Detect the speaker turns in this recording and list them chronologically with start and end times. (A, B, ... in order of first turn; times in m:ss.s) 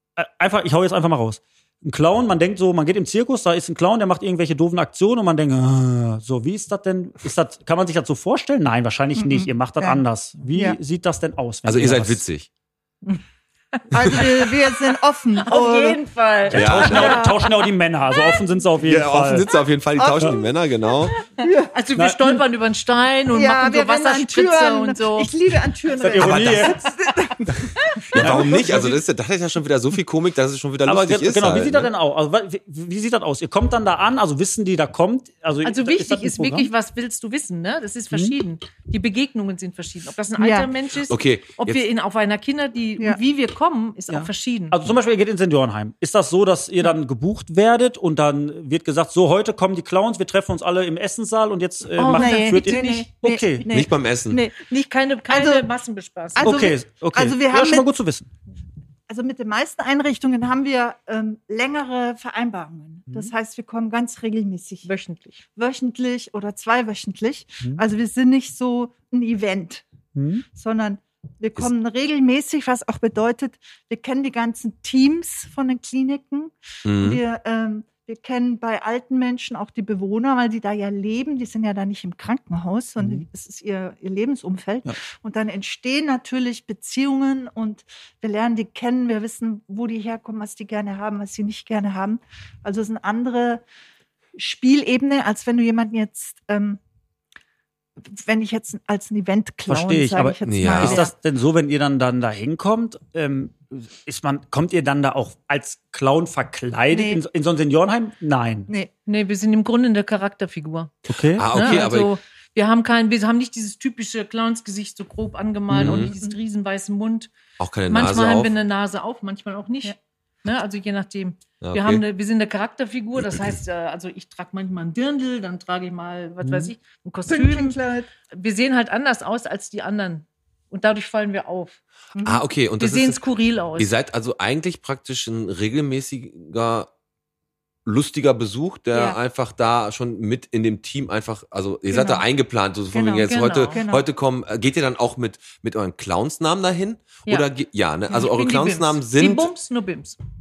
0:00.2-0:12.2 A
0:09.2-0:10.8 B
0:11.6-0:12.5 C
0:13.9-0:16.0 B
0:14.1-0:14.6 D
0:15.4-0:17.2 D
0:16.5-0:19.5 A
0:16.5-0:17.3 C
0:16.8-0:17.3 B
0:18.8-0:21.1 C
0:20.0-0:20.5 B
0:21.4-0:21.7 B
0:21.7-0:25.3 D
0:22.0-0:22.2 A
0:23.3-0:28.7 B
0:26.0-0:26.8 A
0:26.2-0:26.8 C
0:28.1-0:31.9 C
0:28.2-0:28.9 A
0:30.8-0:36.7 A
0:35.6-0:44.8 D
0:40.4-0:40.7 B
0:41.0-0:41.8 C
0:44.1-0:53.6 A
0:52.0-0:53.1 D
0:52.1-0:54.6 B
0:53.7-0:54.4 C
0:54.6-0:56.6 D
0:55.3-0:55.6 B
0:56.3-0:57.9 B
0:56.4-0:58.3 A
0:59.1-1:04.9 B
1:03.1-1:03.3 A
1:04.8-1:05.4 D
1:05.5-1:09.8 B
1:10.1-1:10.4 A
1:10.5-1:33.6 B
1:16.8-1:17.2 C
1:23.0-1:23.2 A
1:34.3-1:36.8 B
1:38.0-1:41.1 B
1:39.7-1:48.7 A
1:40.4-1:41.1 C
1:46.9-1:47.2 B
1:49.0-1:50.9 D
1:51.1-1:51.5 A
1:51.3-1:52.1 C
1:51.5-1:57.3 D
1:55.7-1:56.0 A
1:55.7-1:56.1 C
1:57.6-1:58.5 C
1:57.9-2:07.8 D
2:01.6-2:02.0 C
2:06.4-2:06.7 A
2:07.3-2:08.1 B
2:08.3-2:11.8 D
2:12.1-2:12.4 B
2:12.2-2:13.2 C
2:12.8-2:13.9 D
2:13.8-2:16.9 C
2:17.8-2:29.5 C
2:21.9-2:22.2 B
2:22.9-2:24.0 B
2:23.2-2:23.8 D
2:28.1-2:30.2 D